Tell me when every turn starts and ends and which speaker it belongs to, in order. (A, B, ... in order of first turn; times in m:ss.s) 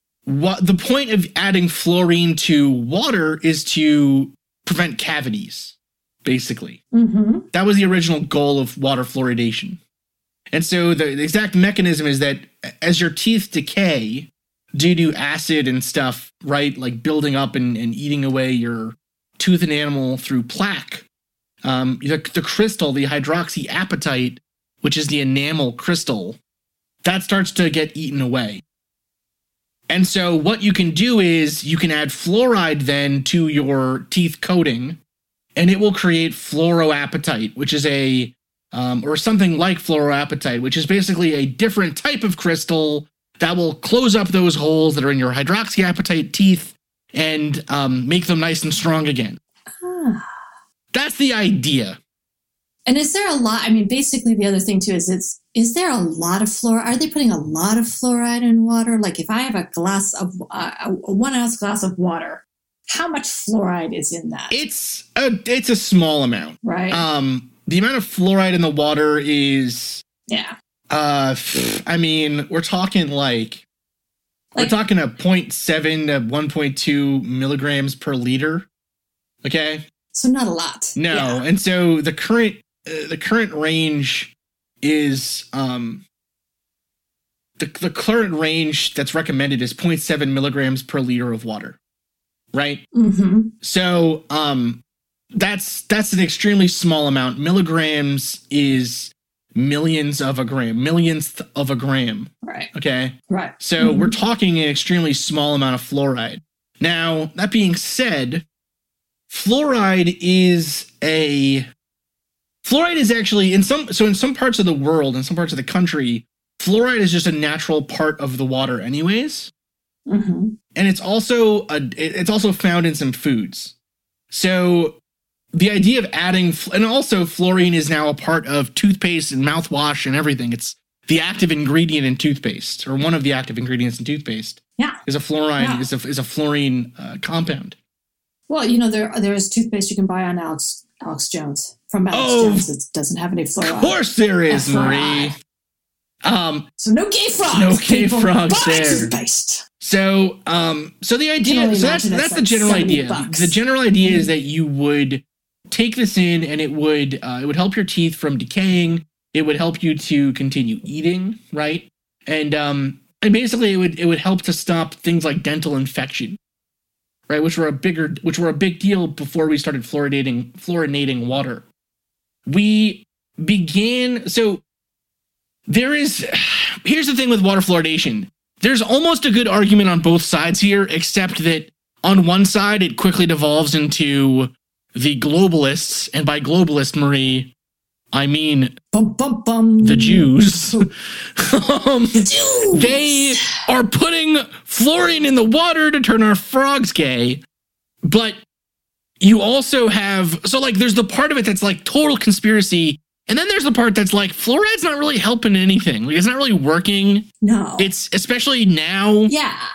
0:00.2-0:06.8 A
0:06.9-0:07.4 B
0:07.5-0:09.8 A
0:10.5-0:21.0 A
0:21.6-0:26.4 A
0:27.0-0:28.6 A
0:29.9-0:35.0 A
0:35.5-0:49.4 A
0:49.7-0:50.4 B
0:50.9-0:52.0 A
0:52.8-1:04.6 B
1:04.5-1:10.0 A
1:06.6-1:07.0 B
1:10.3-1:10.5 B
1:10.9-1:13.6 A
1:14.6-1:18.7 A
1:19.4-1:19.8 A
1:20.1-1:21.4 B
1:21.0-1:26.0 A
1:27.6-1:31.8 A
1:32.5-1:32.8 A
1:32.9-1:33.5 B
1:33.6-1:34.8 A
1:35.3-1:48.4 A
1:42.4-1:42.7 B
1:43.3-1:44.1 B
1:49.3-1:51.7 A
1:52.6-1:59.5 A
2:00.1-2:00.5 B
2:00.7-2:03.7 A
2:04.3-2:05.0 A
2:05.5-2:17.8 A
2:15.6-2:15.9 B
2:18.5-2:25.3 B
2:22.1-2:22.7 A
2:23.6-2:25.3 A
2:26.2-2:26.6 A
2:26.8-2:29.6 B
2:27.5-2:29.1 A
2:29.8-2:46.4 A
2:31.4-2:34.3 B
2:47.3-2:51.6 A
2:52.4-2:54.6 A
2:55.7-3:07.5 A
3:08.1-3:08.7 A
3:08.9-3:10.9 B
3:09.8-3:17.4 A
3:12.2-3:13.3 B
3:18.0-3:18.4 A
3:19.2-3:27.2 A
3:27.4-3:27.9 B
3:27.8-3:29.3 A
3:29.3-3:29.6 B